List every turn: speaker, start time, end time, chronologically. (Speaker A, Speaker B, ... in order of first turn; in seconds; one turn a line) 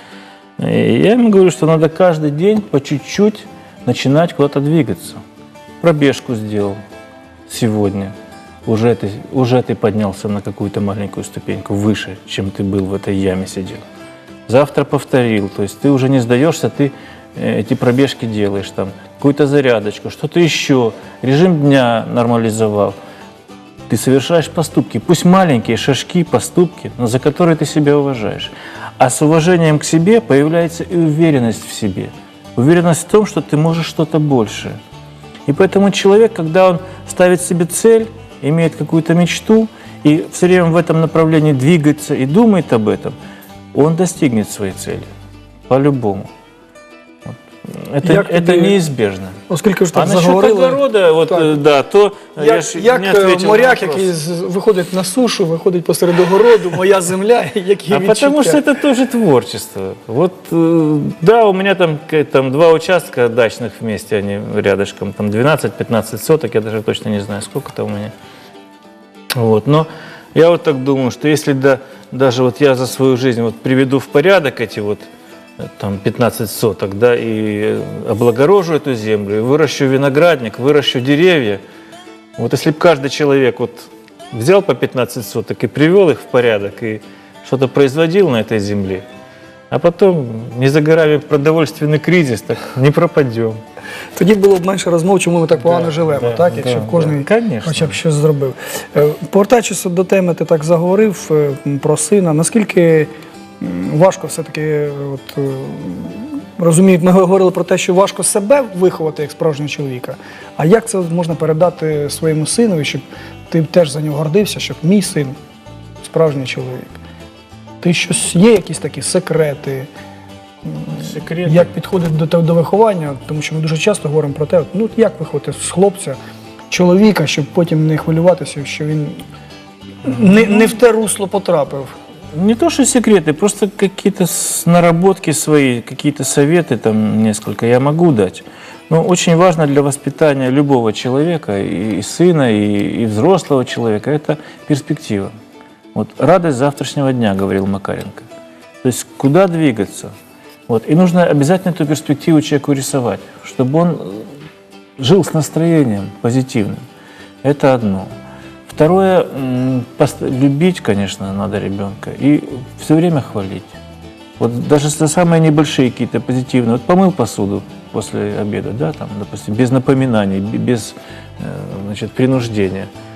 Speaker A: 0.6-5.2
Speaker A: 5.8-6.8
Speaker A: 7.5-8.1
Speaker A: 8.7-13.8
Speaker A: 14.5-23.0
Speaker A: 23.9-34.8
Speaker A: 35.5-43.1
Speaker A: 43.7-45.1
Speaker A: 45.7-46.3
Speaker A: 47.2-49.4
Speaker B: 48.0-48.8
Speaker B: 49.5-51.5
Speaker A: 49.9-54.1
Speaker B: 52.4-58.6
Speaker A: 57.9-68.1
Speaker A: 69.3-75.1
Speaker A: 75.6-81.6
Speaker A: 82.4-89.0
Speaker A: 89.7-93.6
Speaker B: 94.2-115.4
Speaker A: 95.6-98.0
Speaker B: 116.0-117.0
Speaker B: 117.8-119.9
Speaker B: 120.6-126.2
Speaker A: 120.9-121.7
Speaker B: 126.7-129.2
Speaker B: 130.0-131.9
Speaker A: 130.1-130.8
Speaker A: 132.3-145.3
Speaker A: 145.9-148.2
Speaker A: 148.8-150.1
Speaker A: 150.7-154.3
Speaker A: 155.0-156.8
Speaker A: 157.4-158.1
Speaker A: 158.7-163.7
Speaker A: 164.4-172.9